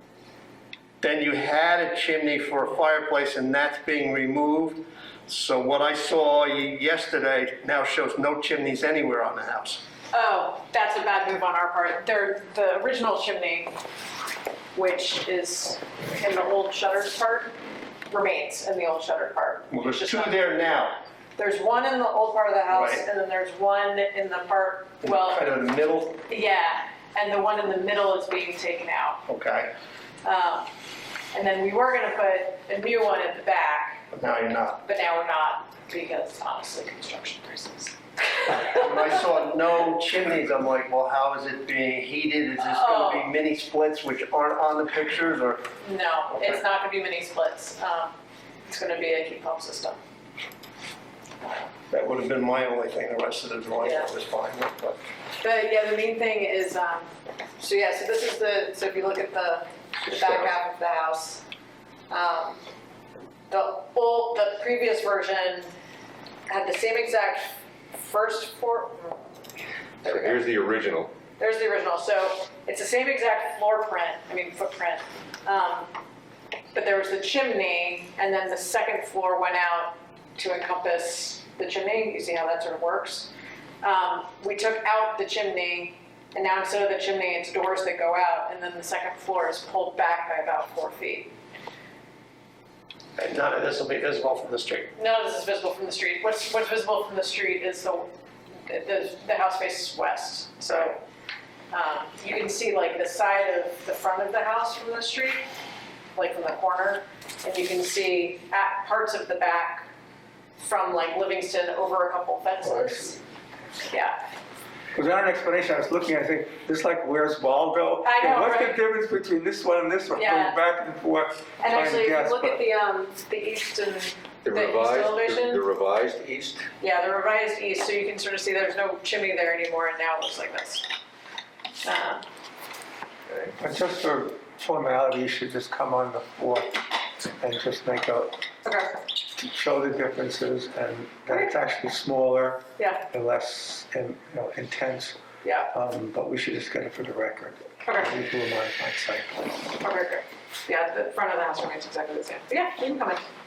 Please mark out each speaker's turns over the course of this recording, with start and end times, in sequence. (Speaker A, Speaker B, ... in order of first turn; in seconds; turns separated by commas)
Speaker A: 1.0-9.8, Speaker B: 10.1-13.7, Speaker B: 14.7-17.5, Speaker B: 18.1-20.5, Speaker A: 19.7-21.0, Speaker B: 21.4-25.4, Speaker A: 22.7-23.1, Speaker A: 25.0-26.2, Speaker B: 26.3-29.2, Speaker A: 29.3-29.7, Speaker B: 30.2-30.7, Speaker B: 31.3-34.0, Speaker A: 34.1-34.8, Speaker B: 34.8-39.1, Speaker A: 38.5-45.6, Speaker B: 42.6-43.3, Speaker B: 45.8-50.0, Speaker A: 46.3-46.6, Speaker B: 51.4-51.7, Speaker A: 51.9-55.0, Speaker B: 53.8-54.1, Speaker B: 55.4-61.4, Speaker C: 60.2-60.4, Speaker B: 62.1-62.6, Speaker B: 63.5-65.7, Speaker B: 66.5-69.2, Speaker B: 70.0-70.5, Speaker C: 70.0-71.1, Speaker B: 71.4-75.9, Speaker B: 76.7-83.3, Speaker B: 83.8-91.3, Speaker A: 93.2-94.9, Speaker B: 94.9-98.1, Speaker B: 98.7-101.0, Speaker B: 101.7-105.5, Speaker B: 106.1-109.9, Speaker B: 110.6-113.2, Speaker D: 112.6-113.2, Speaker B: 113.9-114.2, Speaker D: 114.9-122.6, Speaker B: 118.0-118.8, Speaker B: 120.1-120.6, Speaker B: 121.6-125.6, Speaker C: 124.4-126.7, Speaker B: 126.8-130.9, Speaker B: 131.8-132.2, Speaker D: 133.5-136.8, Speaker D: 137.4-138.4, Speaker B: 138.6-139.0, Speaker D: 139.4-149.5, Speaker B: 142.8-143.1, Speaker B: 145.4-145.7, Speaker B: 147.8-148.1, Speaker B: 149.8-153.2